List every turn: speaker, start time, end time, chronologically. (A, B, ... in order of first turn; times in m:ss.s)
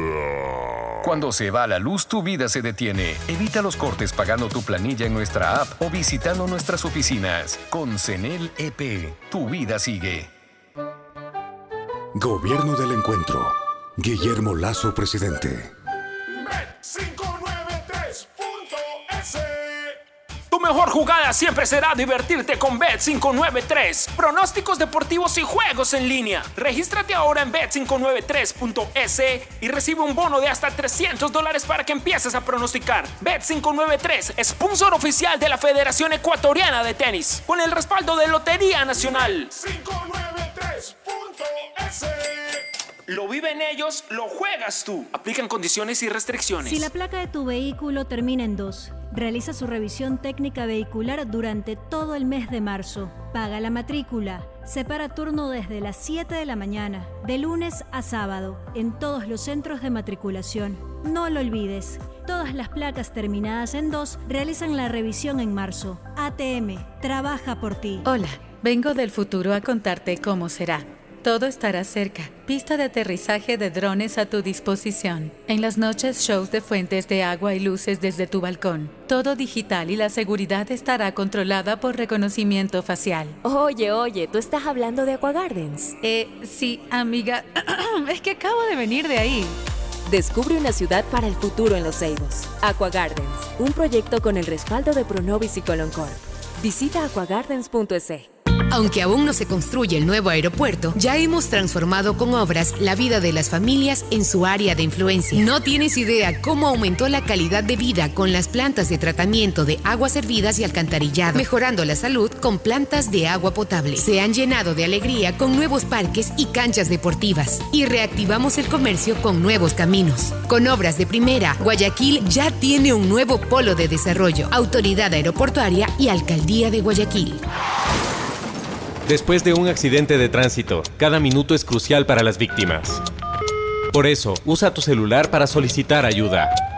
0:01.0-0:10.3 A
0:12.2-0:13.5 B
0:14.0-0:15.6 B
0:20.5-0:39.6 C
0:43.1-0:46.9 C
0:46.6-1:08.0 D
1:08.0-1:23.4 E
1:23.4-1:26.0 F
1:26.0-1:29.6 E
1:30.1-1:38.3 F
1:38.7-2:07.4 G
2:09.0-2:13.0 H
2:13.9-2:16.5 H